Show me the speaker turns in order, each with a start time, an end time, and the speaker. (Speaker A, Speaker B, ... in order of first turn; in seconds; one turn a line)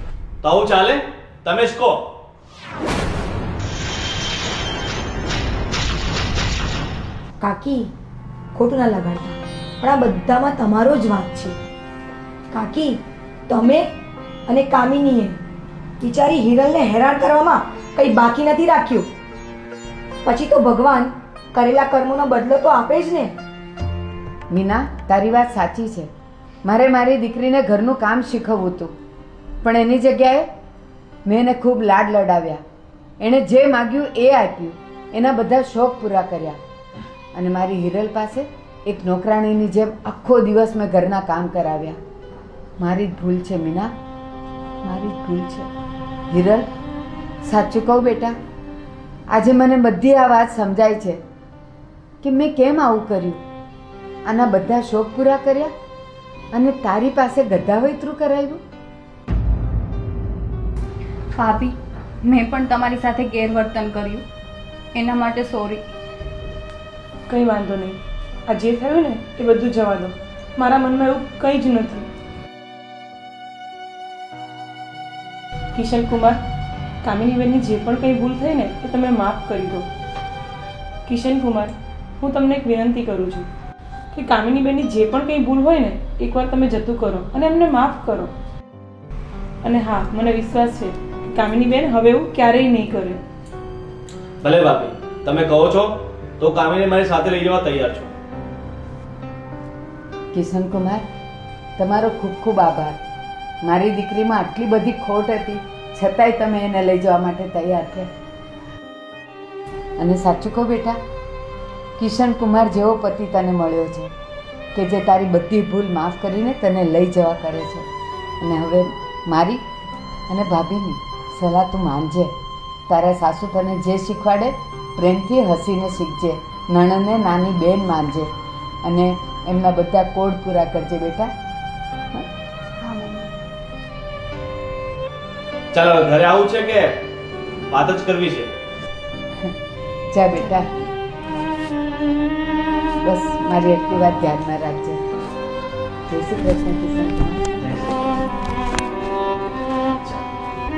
Speaker A: 0.4-2.1
Speaker B: 7.4-7.9
Speaker B: 8.5-11.6
Speaker B: 12.5-13.9
Speaker B: 14.5-15.4
Speaker B: 16.0-19.1
Speaker B: 20.2-23.3
Speaker C: 24.5-26.1
Speaker C: 26.6-28.9
Speaker C: 29.6-30.5
Speaker C: 31.2-32.6
Speaker C: 33.2-36.6
Speaker C: 37.3-42.0
Speaker C: 42.8-43.9
Speaker C: 44.8-45.7
Speaker C: 46.3-46.7
Speaker C: 47.4-48.4
Speaker C: 49.3-51.2
Speaker C: 52.2-53.4
Speaker C: 54.2-55.7
Speaker C: 56.5-58.6
Speaker D: 61.3-64.2
Speaker D: 64.9-65.8
Speaker E: 67.3-72.1
Speaker E: 75.7-76.4
Speaker E: 77.0-79.9
Speaker E: 81.0-83.5
Speaker E: 84.1-88.3
Speaker E: 89.6-93.2
Speaker A: 94.4-98.1
Speaker C: 100.3-101.0
Speaker C: 101.8-103.0
Speaker C: 103.6-108.1
Speaker C: 110.0-111.0
Speaker C: 112.0-114.1
Speaker C: 114.7-117.8
Speaker C: 118.4-119.6
Speaker C: 120.3-122.3
Speaker C: 122.9-128.3
Speaker C: 128.8-131.3
Speaker D: 132.8-133.3
Speaker A: 135.7-137.0
Speaker A: 137.7-138.5
Speaker C: 140.1-140.7
Speaker C: 143.0-145.0
Speaker C: 146.1-147.4
Speaker A: 147.6-148.0